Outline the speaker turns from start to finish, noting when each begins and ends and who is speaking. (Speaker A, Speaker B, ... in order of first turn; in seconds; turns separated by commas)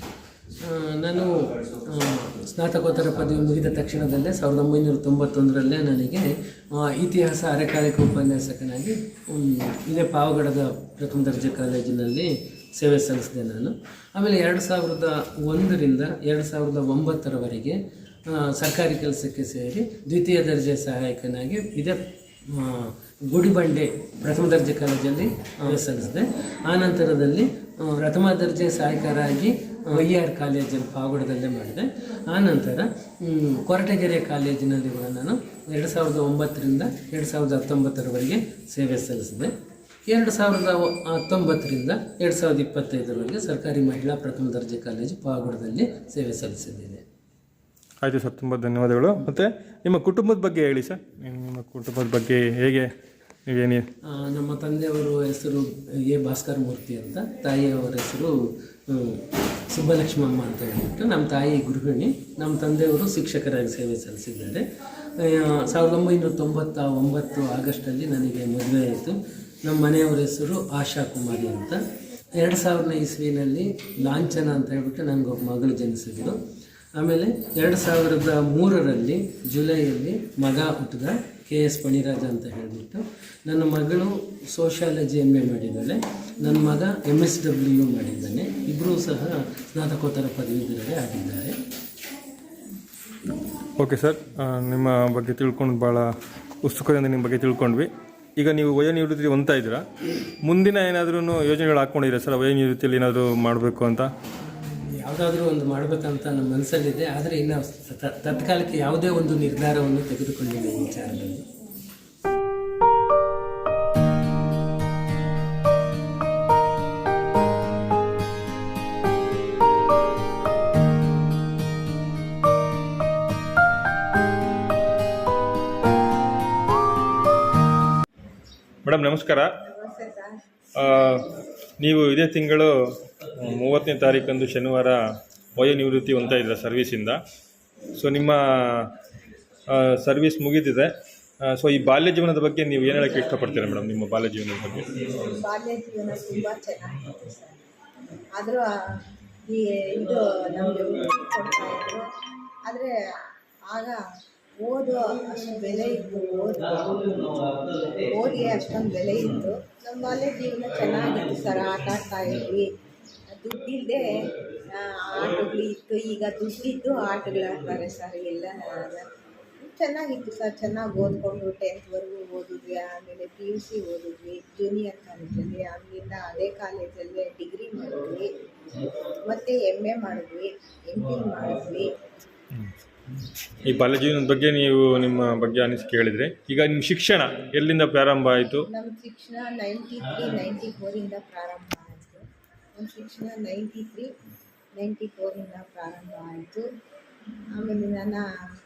Speaker A: 0.6-39.5, Speaker A: 40.1-47.0, Speaker B: 48.0-52.9, Speaker B: 53.5-53.9, Speaker A: 54.1-58.3, Speaker A: 58.9-71.8, Speaker A: 72.3-76.4, Speaker A: 76.9-91.6, Speaker B: 93.8-96.1, Speaker B: 96.6-99.8, Speaker B: 100.4-104.1, Speaker A: 104.4-111.5, Speaker B: 128.8-129.5, Speaker C: 129.6-130.4, Speaker B: 130.7-135.0, Speaker B: 135.5-137.2, Speaker B: 137.9-139.0, Speaker B: 139.7-140.9, Speaker B: 141.4-145.1, Speaker C: 145.1-147.6, Speaker C: 148.3-152.1, Speaker C: 152.6-154.0, Speaker C: 154.6-162.7, Speaker C: 163.3-181.9, Speaker B: 183.6-188.7, Speaker C: 188.7-194.1, Speaker C: 194.8-196.7, Speaker C: 197.5-198.2